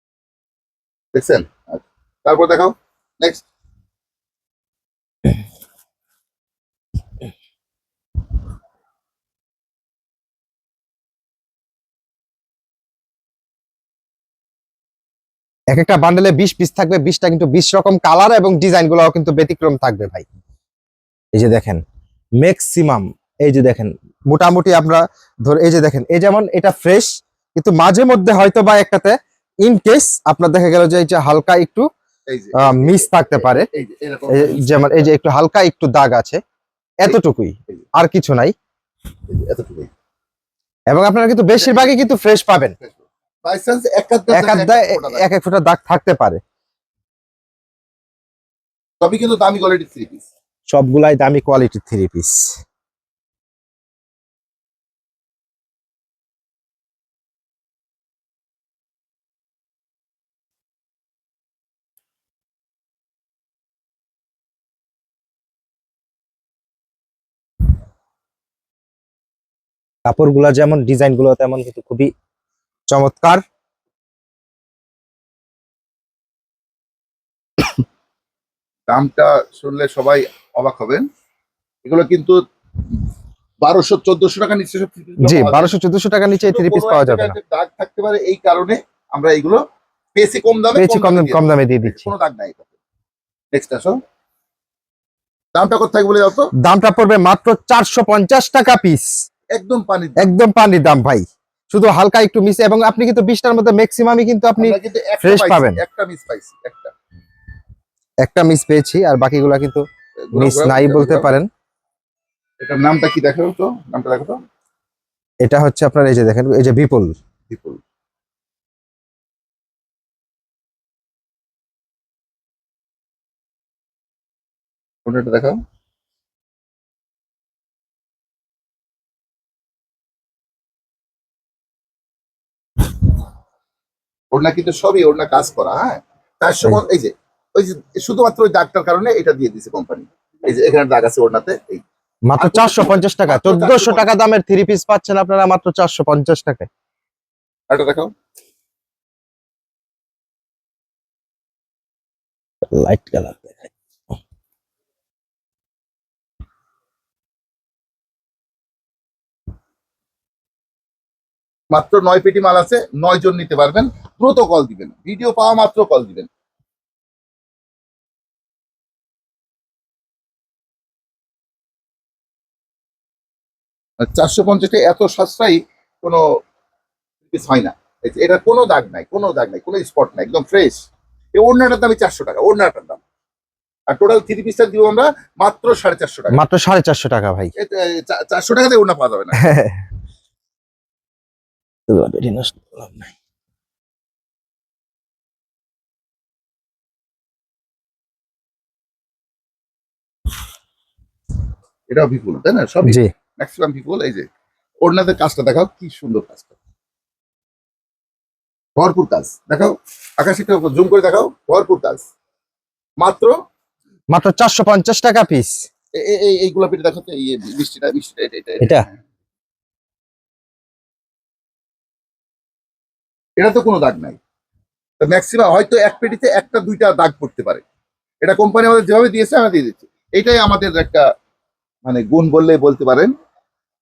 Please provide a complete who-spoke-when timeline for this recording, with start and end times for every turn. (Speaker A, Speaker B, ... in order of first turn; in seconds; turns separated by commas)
Speaker A: 1.1-3.4, Speaker B: 15.7-20.2, Speaker B: 21.3-21.8, Speaker B: 22.4-31.9, Speaker A: 32.3-35.1, Speaker B: 32.5-33.7, Speaker B: 34.3-36.4, Speaker B: 37.0-38.5, Speaker A: 39.3-39.9, Speaker B: 40.9-42.7, Speaker A: 41.6-41.9, Speaker A: 42.8-45.2, Speaker B: 44.3-46.4, Speaker A: 49.0-50.3, Speaker B: 50.7-52.6, Speaker B: 70.1-72.1, Speaker B: 72.9-73.4, Speaker A: 78.9-81.0, Speaker A: 81.8-82.4, Speaker A: 83.6-85.8, Speaker B: 85.2-87.3, Speaker A: 86.4-89.6, Speaker A: 90.1-92.7, Speaker B: 90.8-92.1, Speaker A: 93.5-94.0, Speaker A: 95.5-96.5, Speaker B: 96.6-99.1, Speaker A: 99.5-100.3, Speaker B: 100.2-105.8, Speaker A: 104.6-106.9, Speaker B: 108.2-111.5, Speaker A: 110.3-111.3, Speaker A: 112.6-114.4, Speaker B: 115.4-117.1, Speaker A: 117.5-117.8, Speaker A: 125.0-125.6, Speaker A: 134.3-141.8, Speaker B: 142.3-146.7, Speaker A: 142.4-144.1, Speaker A: 147.7-148.1, Speaker B: 152.7-153.7, Speaker A: 161.7-166.3, Speaker A: 174.0-176.2, Speaker A: 177.3-180.8, Speaker A: 181.3-183.0, Speaker A: 183.9-186.4, Speaker B: 186.3-187.5, Speaker A: 187.6-189.4, Speaker B: 189.4-189.8, Speaker B: 191.9-193.1, Speaker A: 201.9-204.3, Speaker B: 202.8-203.1, Speaker A: 204.8-206.5, Speaker A: 208.8-212.0, Speaker A: 213.0-213.3, Speaker B: 214.1-215.7, Speaker A: 215.9-218.9, Speaker A: 223.4-224.2, Speaker A: 225.0-227.6, Speaker A: 228.2-231.1, Speaker A: 231.8-233.1